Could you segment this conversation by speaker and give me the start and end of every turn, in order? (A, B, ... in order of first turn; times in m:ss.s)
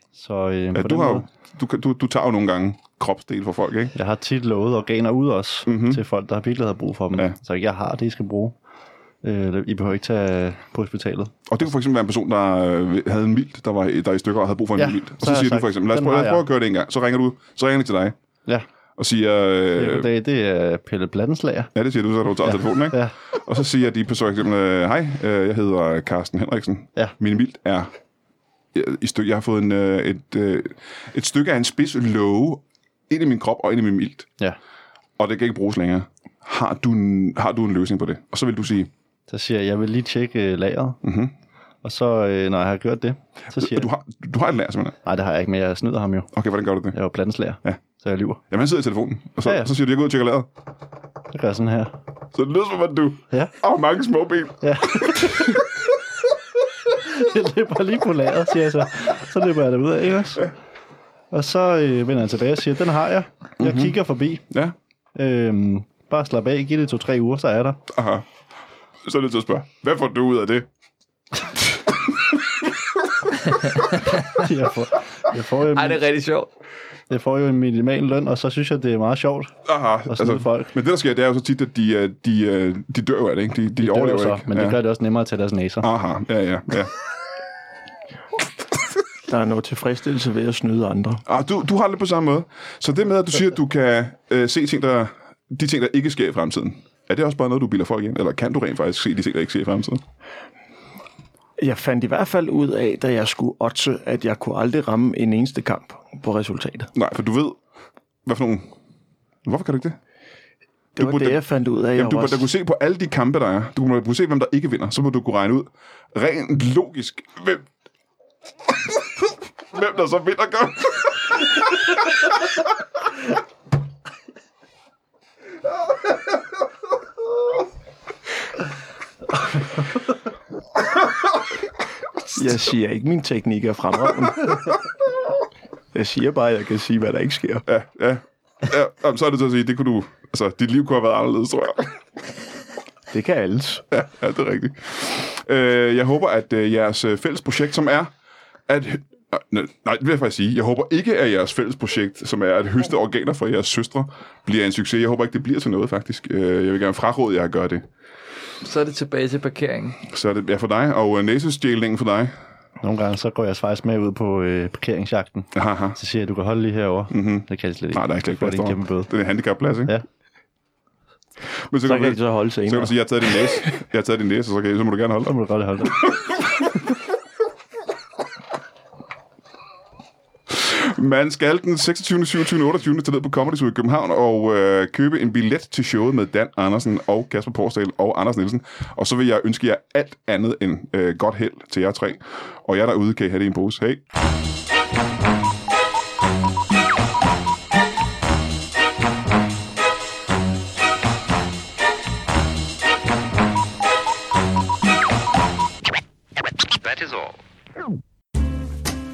0:00.1-0:01.3 A
0:00.7-0:03.9 B
0:04.0-0:08.6 A
0:05.7-0:06.0 B
0:09.2-0:11.3 A
0:11.5-0:18.1 B
0:14.8-0:16.4 A
0:19.0-0:20.1 B
0:19.7-0:21.7 A
0:21.7-0:27.9 B
0:22.4-0:23.1 A
0:28.7-0:34.3 B
0:35.2-0:38.9 B
0:39.3-0:41.0 A
0:41.0-0:41.3 B
0:41.8-0:43.9 A
0:43.5-0:45.0 B
0:45.0-0:46.3 A
0:46.3-0:47.0 B
0:46.9-0:48.4 A
0:48.5-0:50.5 B
0:51.3-0:52.0 A
0:52.3-0:55.5 B
0:54.6-0:55.7 A
0:56.8-1:00.5 A
1:01.3-1:04.4 A
1:03.6-1:04.0 B
1:04.5-1:04.7 B
1:05.1-1:07.8 A
1:07.9-1:08.2 B
1:09.0-1:10.7 B
1:13.8-1:14.3 C
1:14.3-1:16.0 A
1:15.7-1:16.5 C
1:17.1-1:19.6 A
1:19.7-1:24.8 B
1:20.1-1:20.7 A
1:23.8-1:25.9 A
1:25.8-1:26.9 B
1:29.3-1:31.2 D
1:31.3-1:40.0 B
1:41.6-1:46.9 D
1:46.9-1:47.6 B
1:48.3-1:48.7 B
1:49.4-1:50.0 B
1:51.0-1:51.4 B
1:51.0-1:52.5 D
1:52.0-1:57.7 B
1:59.7-2:01.2 B
2:12.3-2:14.7 D
2:15.9-2:17.6 D
2:17.7-2:22.0 B
2:23.1-2:23.8 D
2:23.9-2:28.1 B
2:28.7-2:37.9 B
2:38.6-2:40.0 C
2:40.1-2:42.3 B
2:42.8-2:49.1 A
2:45.5-2:46.0 B
2:47.1-2:50.0 B
2:51.7-2:55.4 B
2:51.8-2:53.6 D
2:55.3-2:56.0 A
3:00.5-3:14.0 B